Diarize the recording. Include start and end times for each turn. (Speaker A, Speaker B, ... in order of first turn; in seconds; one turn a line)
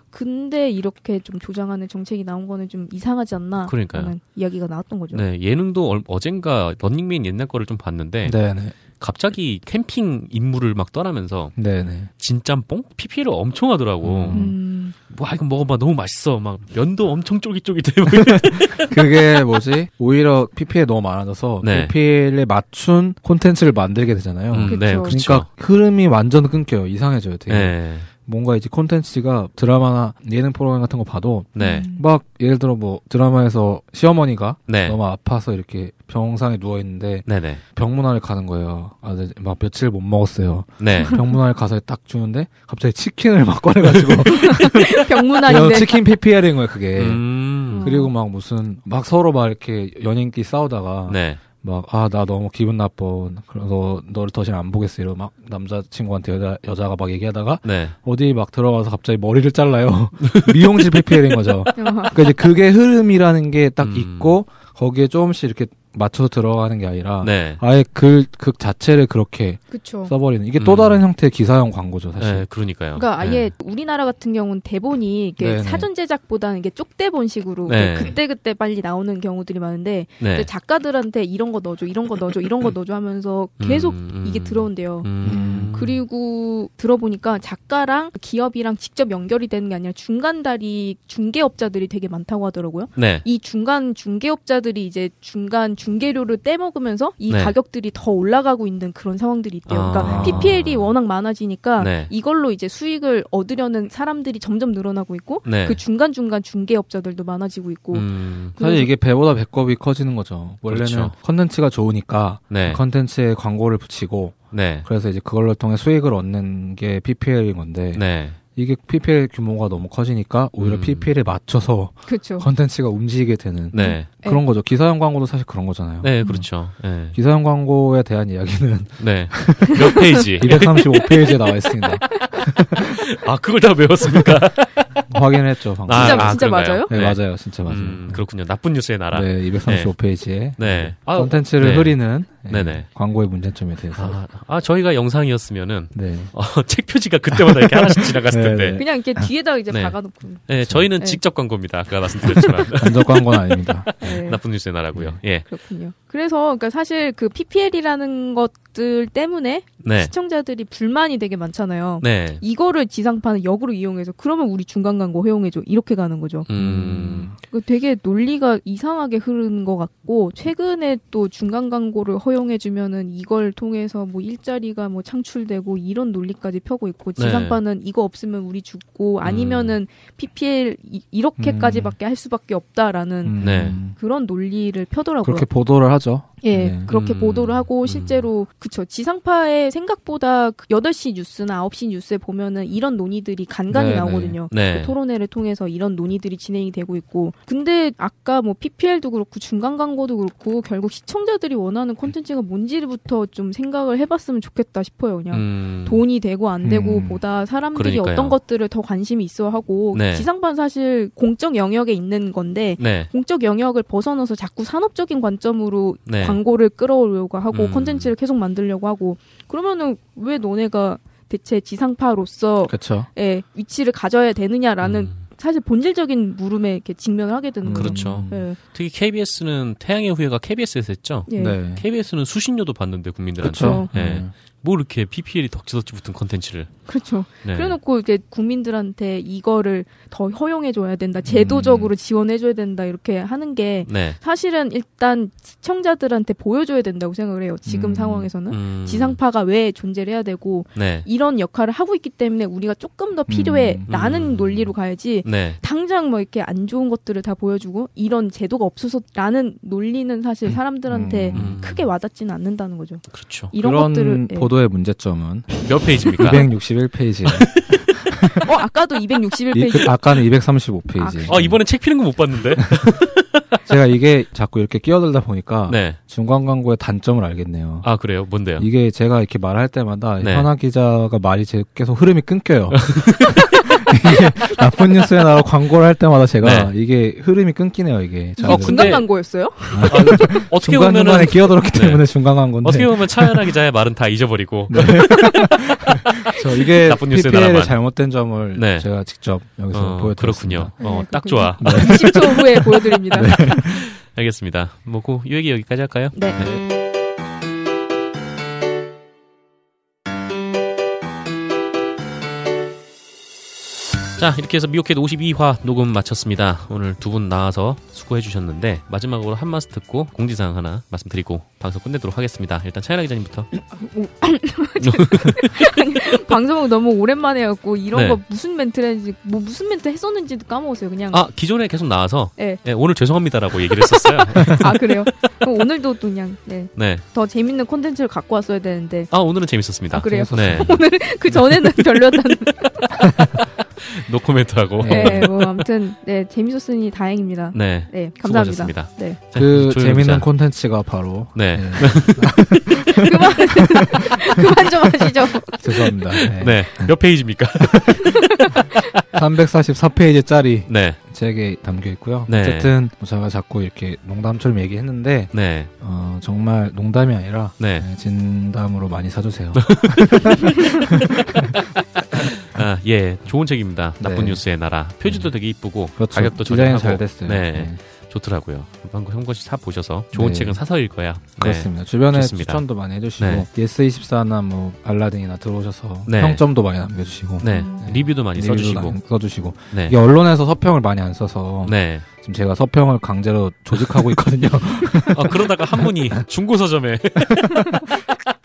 Speaker A: 0.1-5.2
Speaker B: 3.6-4.2
Speaker B: 5.1-8.4
Speaker C: 8.2-8.8
Speaker B: 8.9-11.6
Speaker C: 11.6-12.1
Speaker B: 12.2-14.5
Speaker C: 14.0-14.6
Speaker A: 14.3-14.9
Speaker B: 15.1-18.9
Speaker C: 18.2-72.5
Speaker B: 21.6-21.9
Speaker B: 24.5-25.5
Speaker A: 24.6-25.2
Speaker B: 27.5-28.1
Speaker B: 31.6-31.9
Speaker A: 31.6-32.0
Speaker B: 34.7-35.0
Speaker B: 37.3-37.6
Speaker B: 40.8-41.2
Speaker A: 41.0-41.4
Speaker A: 44.2-46.0
Speaker B: 47.0-47.9
Speaker A: 47.7-48.1
Speaker B: 51.1-51.4
Speaker B: 57.6-58.0
Speaker B: 60.2-61.1
Speaker A: 61.8-62.3
Speaker B: 63.8-64.4
Speaker B: 67.2-67.6
Speaker A: 69.7-70.1
Speaker B: 70.6-71.0
Speaker B: 72.2-73.5
Speaker A: 73.0-85.1
Speaker C: 75.4-75.9
Speaker B: 77.7-78.2
Speaker B: 80.2-80.5
Speaker B: 83.6-86.0
Speaker C: 85.2-85.8
Speaker A: 85.7-108.9
Speaker B: 93.0-93.2
Speaker B: 97.3-97.5
Speaker B: 99.7-100.9
Speaker C: 100.0-100.7
Speaker B: 101.8-102.1
Speaker B: 105.5-105.8
Speaker B: 107.9-108.5
Speaker C: 108.6-126.5
Speaker B: 110.7-111.1
Speaker B: 112.5-112.8
Speaker B: 114.5-114.9
Speaker B: 118.0-118.4
Speaker B: 120.6-121.1
Speaker A: 122.1-122.5
Speaker B: 123.7-124.1
Speaker A: 123.8-124.4
Speaker B: 126.0-127.2
Speaker C: 127.1-133.0
Speaker B: 129.0-130.9
Speaker A: 130.4-132.5
Speaker B: 132.9-134.9
Speaker C: 135.1-138.2
Speaker B: 135.9-139.9
Speaker A: 135.9-136.9
Speaker C: 139.1-144.2
Speaker B: 140.6-142.9
Speaker B: 143.9-148.8
Speaker C: 145.9-146.3
Speaker C: 147.3-149.3
Speaker A: 148.8-150.5
Speaker B: 149.7-153.0
Speaker A: 152.2-154.4
Speaker C: 152.8-154.1
Speaker B: 154.0-155.5
Speaker A: 155.5-166.5
Speaker B: 159.8-160.1
Speaker B: 162.0-162.4
Speaker B: 166.5-167.3
Speaker C: 166.6-167.4
Speaker A: 167.4-183.4
Speaker B: 177.2-177.6
Speaker B: 179.2-179.8
Speaker C: 181.4-182.0
Speaker C: 183.2-183.9
Speaker B: 183.4-183.8
Speaker A: 183.9-185.5
Speaker C: 185.2-186.9
Speaker A: 186.4-228.6
Speaker B: 186.9-188.2
Speaker C: 193.7-194.4
Speaker B: 194.5-194.9
Speaker B: 205.3-206.0
Speaker C: 206.6-207.2
Speaker B: 207.8-208.4
Speaker B: 209.9-210.3
Speaker B: 212.8-213.1
Speaker B: 216.1-216.4
Speaker B: 217.5-218.1
Speaker C: 222.7-223.1
Speaker B: 224.8-225.2
Speaker C: 227.6-228.5
Speaker B: 227.7-236.7
Speaker A: 231.3-231.6
Speaker C: 231.4-231.8
Speaker C: 233.4-234.3
Speaker A: 233.5-233.9
Speaker A: 236.9-264.5
Speaker B: 237.4-237.8
Speaker C: 241.3-241.9
Speaker B: 243.9-244.2
Speaker C: 247.7-248.3
Speaker B: 248.5-249.2
Speaker B: 250.8-251.1
Speaker C: 253.3-253.9
Speaker B: 253.9-254.7
Speaker B: 255.2-255.6
Speaker C: 260.9-261.6
Speaker B: 261.3-261.9
Speaker B: 263.1-263.5
Speaker C: 263.6-268.4
Speaker B: 265.6-266.5
Speaker B: 267.3-267.8
Speaker A: 268.3-270.0
Speaker C: 269.5-271.6
Speaker A: 271.0-271.5
Speaker B: 271.3-273.4
Speaker C: 273.7-277.9
Speaker B: 275.7-276.0
Speaker B: 277.8-278.7
Speaker C: 278.6-289.1
Speaker B: 280.2-280.5
Speaker B: 282.7-283.3
Speaker B: 286.4-286.7
Speaker A: 288.4-290.3
Speaker B: 288.4-289.1
Speaker C: 289.7-293.5
Speaker B: 289.8-295.2
Speaker C: 294.7-300.7
Speaker A: 294.9-295.6
Speaker B: 296.2-297.8
Speaker B: 298.5-298.9
Speaker B: 299.7-302.3
Speaker A: 300.8-303.4
Speaker C: 301.6-303.9
Speaker B: 303.2-306.6
Speaker A: 306.1-306.4
Speaker B: 314.2-323.5
Speaker A: 323.6-331.2
Speaker B: 324.8-325.8
Speaker B: 327.9-328.2
Speaker B: 331.1-334.9
Speaker A: 332.4-332.6
Speaker A: 333.8-339.1
Speaker B: 336.8-337.0
Speaker B: 339.1-340.8
Speaker A: 339.9-343.0
Speaker C: 340.0-340.8
Speaker C: 343.0-343.4
Speaker B: 343.8-345.4
Speaker C: 344.8-345.4
Speaker A: 344.9-349.2
Speaker B: 347.5-350.3
Speaker C: 349.4-354.1
Speaker B: 351.4-352.3
Speaker A: 352.4-355.9
Speaker C: 355.6-356.9
Speaker B: 356.4-358.1
Speaker C: 357.6-358.1
Speaker A: 358.1-358.7
Speaker C: 359.1-371.6
Speaker B: 360.7-361.0
Speaker B: 362.3-362.7
Speaker B: 365.3-365.7
Speaker B: 367.6-367.9
Speaker B: 369.6-382.6
Speaker C: 374.0-374.4
Speaker C: 375.1-375.3
Speaker C: 376.0-377.8
Speaker C: 380.1-380.6
Speaker C: 381.4-396.2
Speaker B: 383.2-383.5
Speaker B: 386.1-386.4
Speaker B: 387.4-389.0
Speaker A: 387.5-387.8
Speaker B: 389.7-390.0
Speaker B: 391.6-392.1
Speaker B: 393.7-394.1
Speaker B: 395.1-398.0
Speaker C: 397.2-397.9